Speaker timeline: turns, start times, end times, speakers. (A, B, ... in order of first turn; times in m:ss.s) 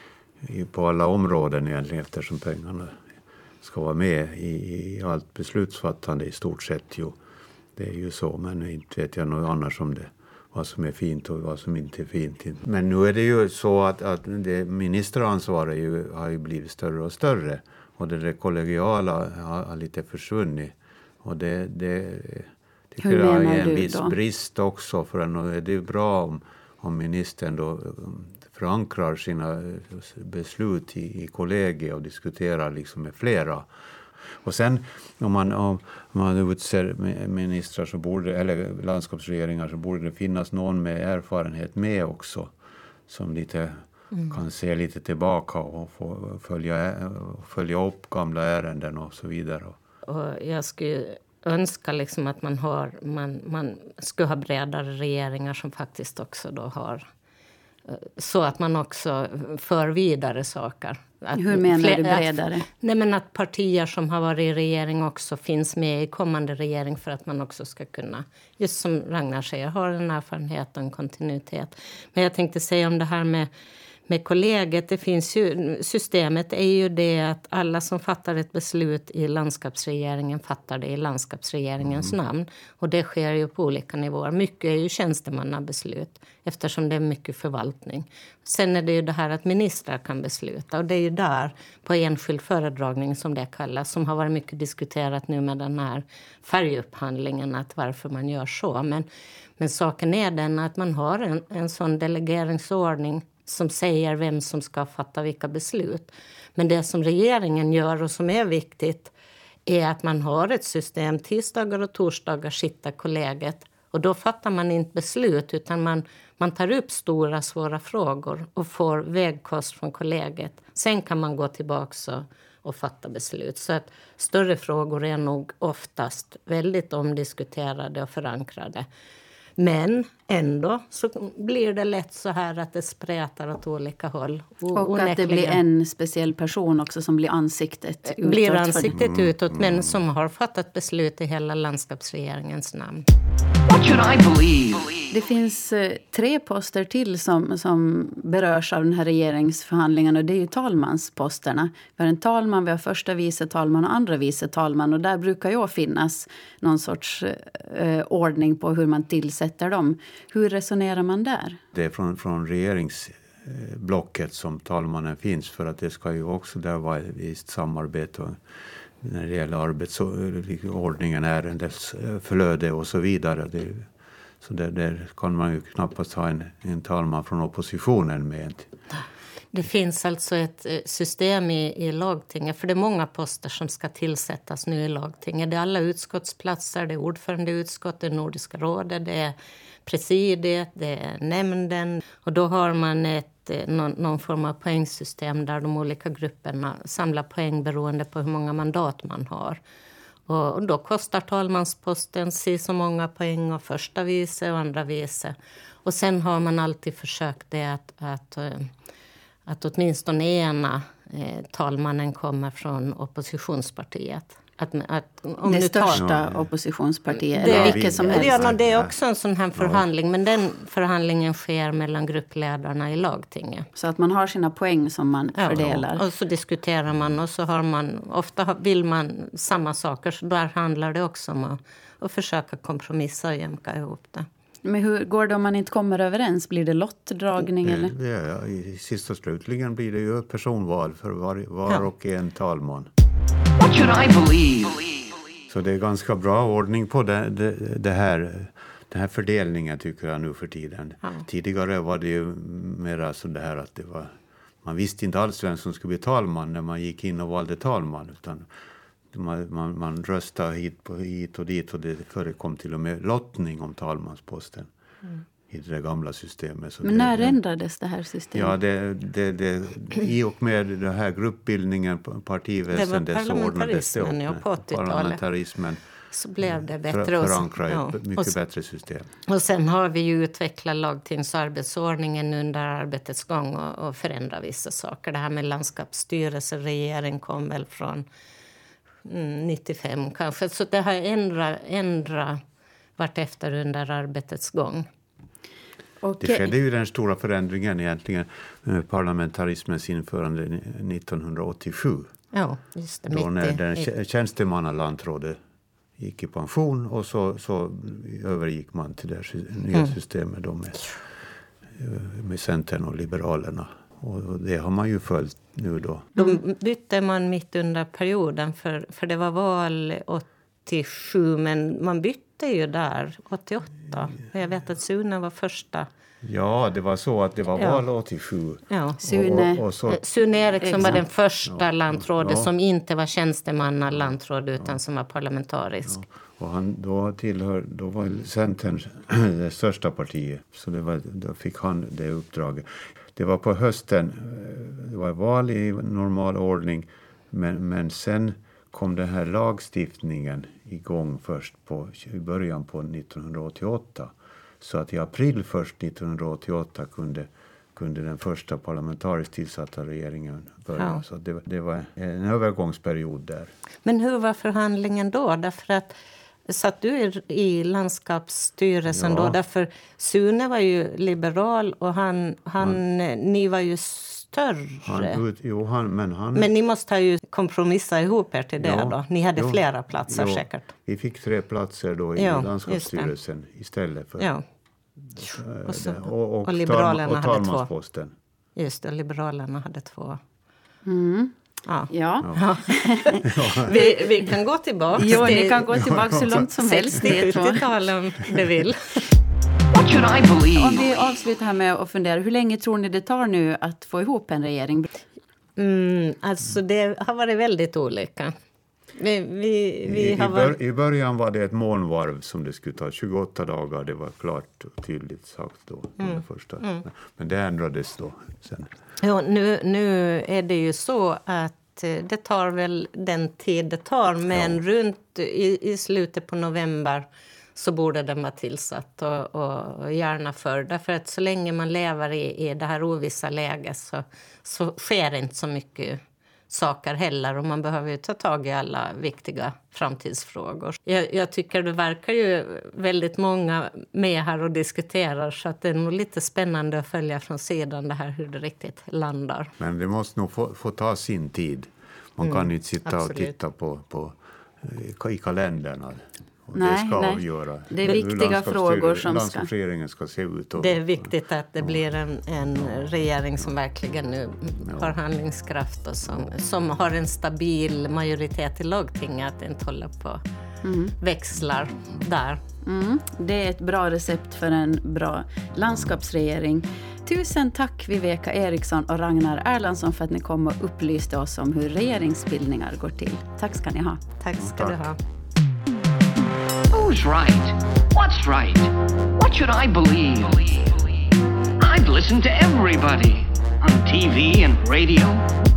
0:00.4-0:03.0 A
0:03.6-0:07.2 A
0:07.8-0:33.7 A
0:23.0-0:24.2 B
0:34.4-0:42.5 A
0:43.1-0:49.8 A
0:50.1-0:57.1 C
0:57.9-1:13.5 C
1:01.3-1:02.6 B
1:14.1-1:39.1 C
1:39.6-1:49.1 C
1:49.7-2:08.9 C
2:09.6-2:15.6 C
2:14.7-2:19.0 B
2:18.1-2:23.1 C
2:18.9-2:19.7 A
2:23.6-2:25.1 D
2:25.1-2:41.6 B
2:41.7-2:48.4 A
2:49.0-2:53.9 A
2:54.4-2:58.7 A
2:59.5-3:19.6 C
3:20.3-3:28.7 C
3:29.5-3:36.1 C
3:35.4-3:38.4 B
3:35.9-3:36.4 A
3:37.4-3:43.7 C
3:37.4-3:39.0 A
3:39.6-3:39.8 A
3:43.8-3:46.0 B
3:45.4-3:54.3 C
3:54.6-3:57.9 B
3:57.6-4:02.9 A
4:03.5-4:05.2 D
4:05.5-4:14.1 A
4:14.6-4:18.5 A
4:19.1-4:24.7 A
4:25.5-4:27.4 A
4:26.8-4:28.6 B
4:28.3-4:35.8 A
4:32.7-4:35.2 C
4:36.1-4:38.3 C
4:36.5-4:39.1 A
4:39.3-4:48.1 C
4:49.1-4:52.4 C
4:53.0-4:54.9 C
4:56.0-4:56.5 B
4:56.2-5:02.1 A
5:02.3-5:03.6 C
5:03.1-5:05.4 A
5:06.0-5:11.0 A
5:11.8-5:16.4 A
5:16.2-5:25.9 C
5:26.2-5:30.0 A
5:28.7-5:29.0 C
5:29.0-5:29.6 B
5:29.9-5:36.0 C
5:30.6-5:31.0 B
5:30.8-5:32.5 A
5:35.9-6:03.5 A
6:00.8-6:01.0 C
6:03.8-6:15.2 C
6:08.9-6:09.4 A
6:14.8-6:16.5 A
6:16.4-6:20.7 C
6:18.6-6:24.3 A
6:22.2-6:23.1 C
6:24.2-6:24.4 C
6:25.2-6:28.1 A
6:25.2-6:27.7 C
6:28.6-6:30.2 C
6:30.8-6:31.3 B
6:31.7-6:39.1 C
6:31.9-6:34.3 B
6:33.2-6:33.7 A
6:35.0-6:37.6 B
6:35.7-6:36.5 A
6:39.6-6:41.0 D
6:40.6-6:44.9 B
6:45.6-6:48.3 C
6:49.0-6:50.6 C
6:49.8-6:58.7 A
6:56.0-6:56.8 C
6:59.0-7:29.5 C
7:04.3-7:04.6 A
7:29.6-7:41.0 A
7:32.8-7:33.4 C
7:36.6-7:39.5 B
7:40.6-7:50.2 C
7:42.5-7:42.9 A
7:44.7-7:44.9 A
7:50.6-7:51.0 B
7:51.0-7:52.4 C
7:52.6-8:04.0 B
8:04.2-8:05.0 C
8:04.4-8:04.9 A
8:06.7-8:11.1 D
8:11.6-8:15.3 D